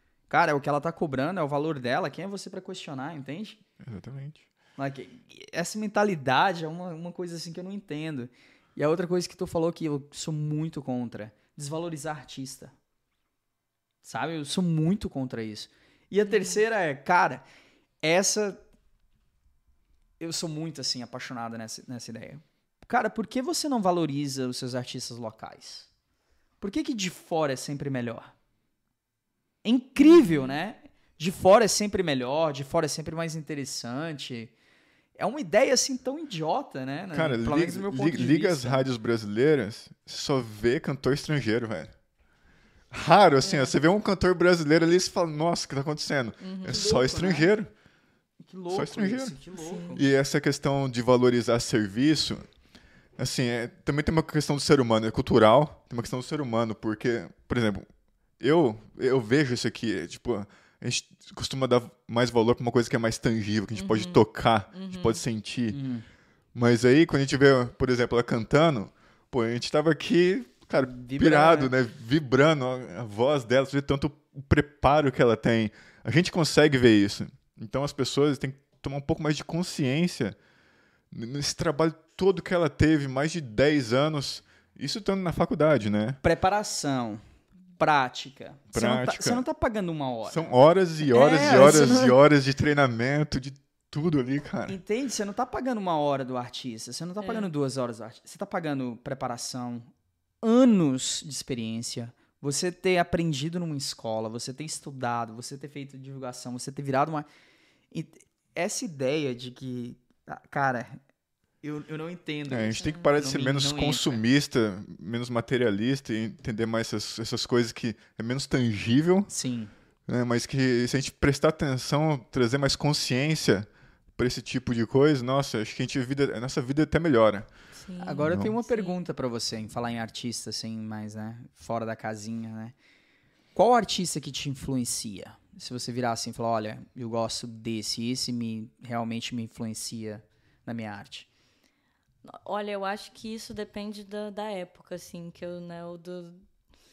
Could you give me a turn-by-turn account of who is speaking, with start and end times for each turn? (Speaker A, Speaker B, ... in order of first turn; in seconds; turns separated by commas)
Speaker A: 0.3-3.6, Speaker B: 3.8-4.5, Speaker A: 4.8-12.7, Speaker A: 14.0-17.4, Speaker C: 16.2-16.6, Speaker A: 18.0-18.6, Speaker A: 20.2-25.9, Speaker A: 26.6-28.3, Speaker A: 29.6-34.5, Speaker C: 30.0-30.6, Speaker A: 35.2-38.8, Speaker B: 37.1-41.9, Speaker B: 42.9-47.7, Speaker C: 43.4-43.7, Speaker C: 46.4-46.9, Speaker A: 46.7-47.5, Speaker A: 48.4-50.0, Speaker B: 48.7-49.4, Speaker C: 49.6-50.0, Speaker B: 50.0-52.5, Speaker B: 53.2-57.9, Speaker B: 58.4-65.8, Speaker C: 63.7-65.2, Speaker A: 65.7-66.0, Speaker B: 66.5-80.3, Speaker A: 70.8-71.7, Speaker B: 81.1-86.2, Speaker A: 86.2-87.2, Speaker A: 87.8-90.5, Speaker B: 88.7-89.4, Speaker B: 90.2-94.8, Speaker C: 91.1-92.2, Speaker A: 91.2-92.0, Speaker A: 94.7-99.9, Speaker C: 97.2-97.5, Speaker A: 100.4-107.3, Speaker A: 107.9-111.0, Speaker A: 111.6-114.2, Speaker B: 112.5-119.3, Speaker C: 112.8-113.2, Speaker A: 119.3-119.7, Speaker B: 120.1-127.5, Speaker C: 127.7-128.9, Speaker A: 128.0-132.7, Speaker B: 128.2-128.5, Speaker A: 133.5-141.3, Speaker C: 142.2-146.4